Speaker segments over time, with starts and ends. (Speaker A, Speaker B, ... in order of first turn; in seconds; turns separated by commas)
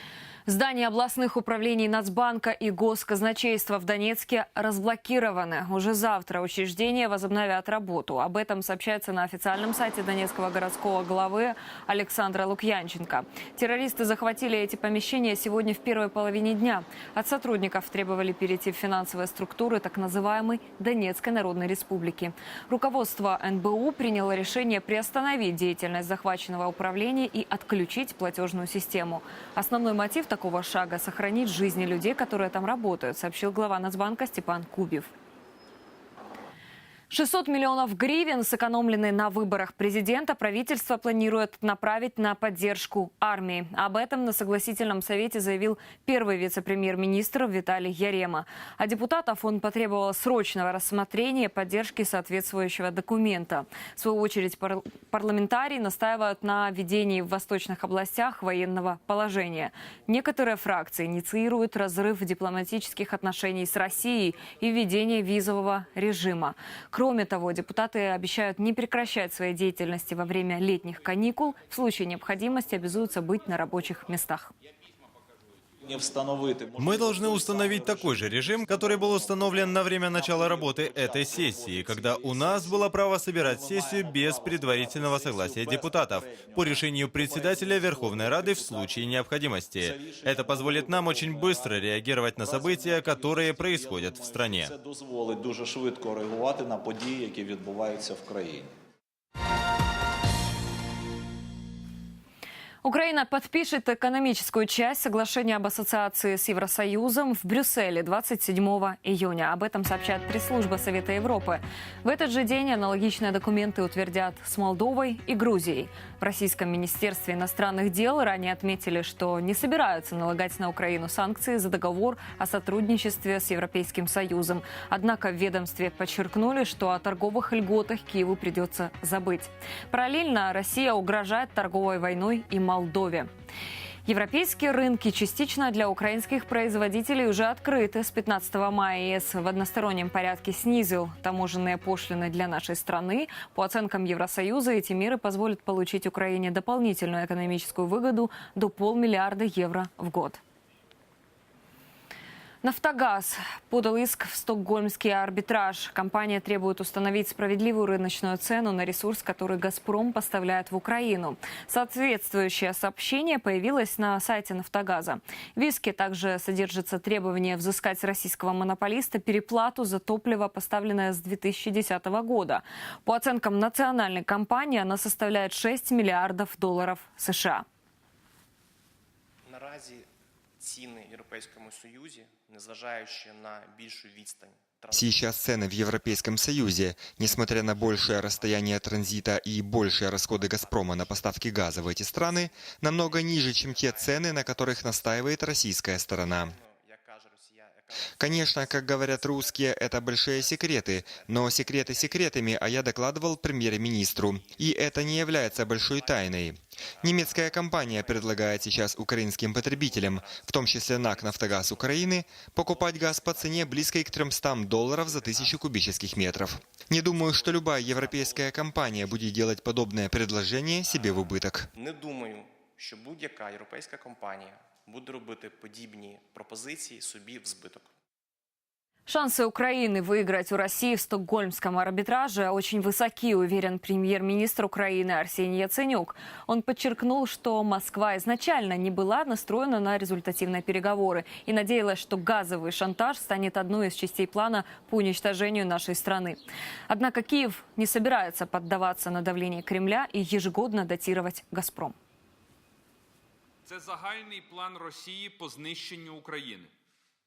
Speaker A: 0.5-35.1, Speaker A: 37.1-74.5, Speaker B: 75.8-89.2, Speaker C: 76.8-94.7, Speaker B: 89.8-98.7, Speaker A: 102.8-133.3, Speaker A: 134.1-150.4, Speaker A: 152.6-177.6, Speaker D: 179.4-180.1, Speaker D: 180.6-186.4, Speaker E: 184.9-196.5, Speaker D: 187.2-189.4, Speaker D: 189.9-227.9, Speaker E: 198.2-221.7, Speaker A: 229.1-251.9, Speaker F: 253.7-256.7